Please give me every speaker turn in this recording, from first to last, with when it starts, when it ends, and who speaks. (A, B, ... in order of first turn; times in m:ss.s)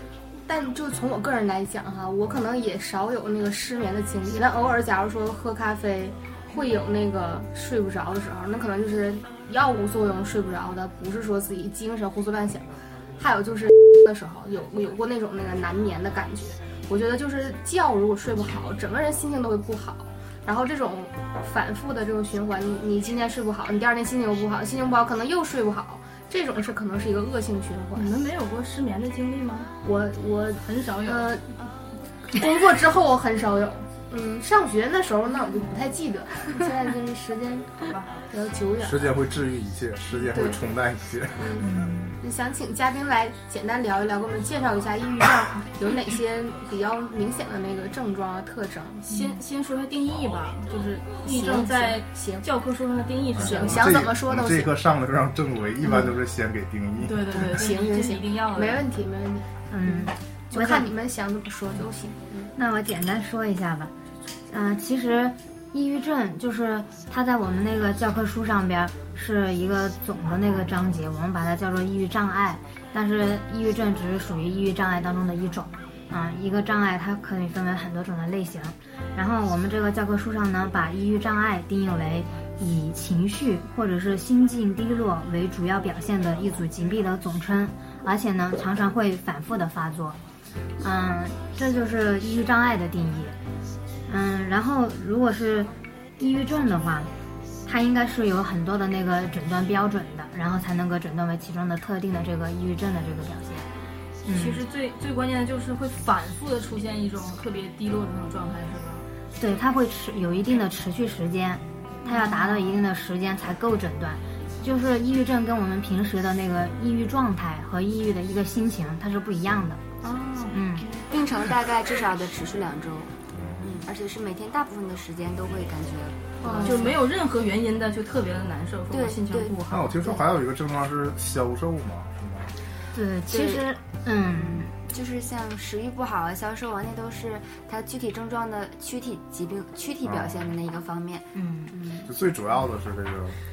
0:00.5-0:12.7 A
0:13.2-0:28.1 A
0:28.0-0:29.7 B
0:29.8-0:31.5 A
0:30.7-0:31.4 B
0:32.3-0:39.0 A
0:37.8-0:38.1 B
0:38.8-0:41.6 C
0:40.3-0:40.6 A
0:41.4-0:41.7 A
0:41.6-0:42.2 D
0:42.2-0:49.3 A
0:49.1-0:54.0 B
0:51.2-0:52.5 A
0:53.3-0:57.4 C
0:53.4-0:54.7 A
0:55.8-0:56.1 A
0:57.0-0:58.8 B
0:57.3-1:02.5 A
0:59.7-1:00.9 D
1:02.6-1:03.9 D
1:04.5-1:30.2 D
1:30.8-1:33.4 D
1:34.1-1:37.1 D
1:37.6-1:43.7 D
1:44.2-1:44.6 D
1:44.3-1:49.1 B
1:49.4-1:59.8 D
1:52.0-1:52.8 B
2:00.0-2:00.6 B
2:00.5-2:00.9 D
2:01.0-2:06.8 E
2:03.3-2:03.7 C
2:06.4-2:07.0 A
2:06.6-2:10.0 B
2:08.9-2:10.2 E
2:09.7-2:12.5 C
2:12.9-2:14.7 D
2:13.3-2:13.7 E
2:14.3-2:22.1 E
2:20.0-2:20.5 C
2:21.4-2:21.7 D
2:22.1-2:23.4 C